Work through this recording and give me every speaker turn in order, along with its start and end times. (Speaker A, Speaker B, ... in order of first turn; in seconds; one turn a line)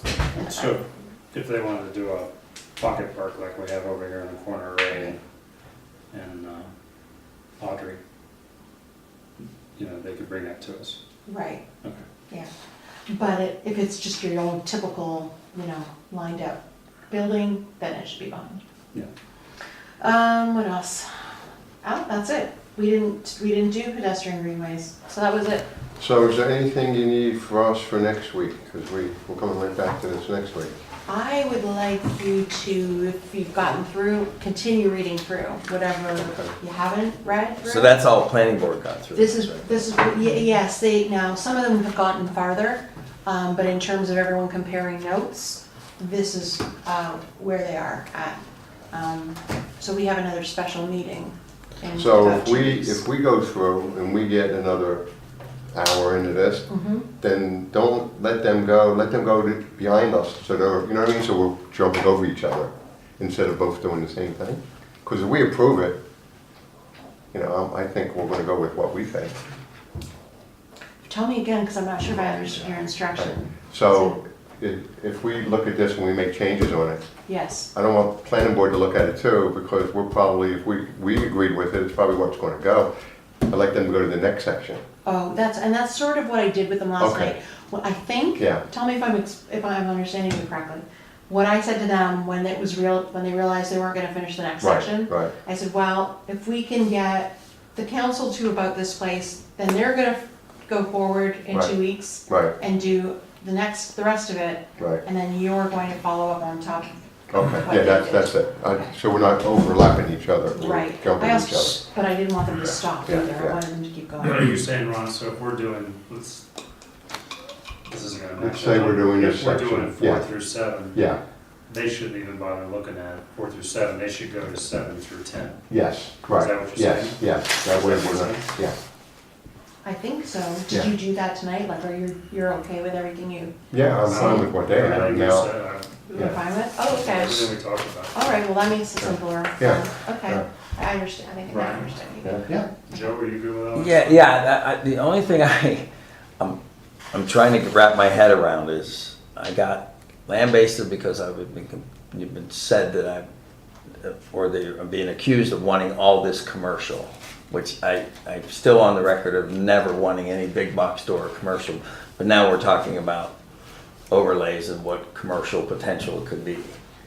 Speaker A: 0.3-5.2
Speaker B: 0.3-0.8
Speaker A: 6.1-6.7
Speaker A: 7.6-8.0
Speaker A: 9.7-11.0
Speaker B: 11.2-11.6
Speaker B: 13.1-18.6
Speaker B: 20.0-21.2
Speaker B: 21.8-25.6
Speaker C: 26.0-30.7
Speaker B: 31.1-38.0
Speaker C: 36.2-36.5
Speaker D: 37.6-39.8
Speaker B: 39.1-48.4
Speaker B: 48.9-53.0
Speaker C: 51.9-55.0
Speaker C: 55.7-66.0
Speaker B: 56.7-57.0
Speaker C: 67.3-69.3
Speaker B: 71.0-74.2
Speaker C: 73.2-77.0
Speaker B: 77.3-77.7
Speaker C: 77.7-82.9
Speaker C: 83.4-84.8
Speaker B: 85.0-108.9
Speaker C: 87.0-87.3
Speaker C: 88.4-88.6
Speaker C: 94.6-95.3
Speaker C: 102.3-102.5
Speaker C: 104.8-105.0
Speaker C: 107.3-111.8
Speaker B: 110.5-114.5
Speaker C: 113.0-113.6
Speaker A: 114.2-116.4
Speaker A: 117.9-121.0
Speaker C: 118.4-120.3
Speaker C: 120.9-121.2
Speaker A: 121.7-125.6
Speaker C: 125.7-128.8
Speaker A: 126.2-128.4
Speaker B: 129.8-133.5
Speaker C: 133.7-135.5
Speaker A: 134.0-136.1
Speaker B: 136.1-137.5
Speaker C: 136.1-136.4
Speaker A: 136.8-138.1
Speaker B: 138.1-142.8
Speaker C: 139.0-140.4
Speaker A: 141.5-141.9
Speaker C: 142.2-142.6
Speaker A: 142.7-144.4
Speaker D: 143.7-145.9
Speaker D: 147.1-153.2
Speaker D: 154.0-163.3
Speaker D: 164.1-166.7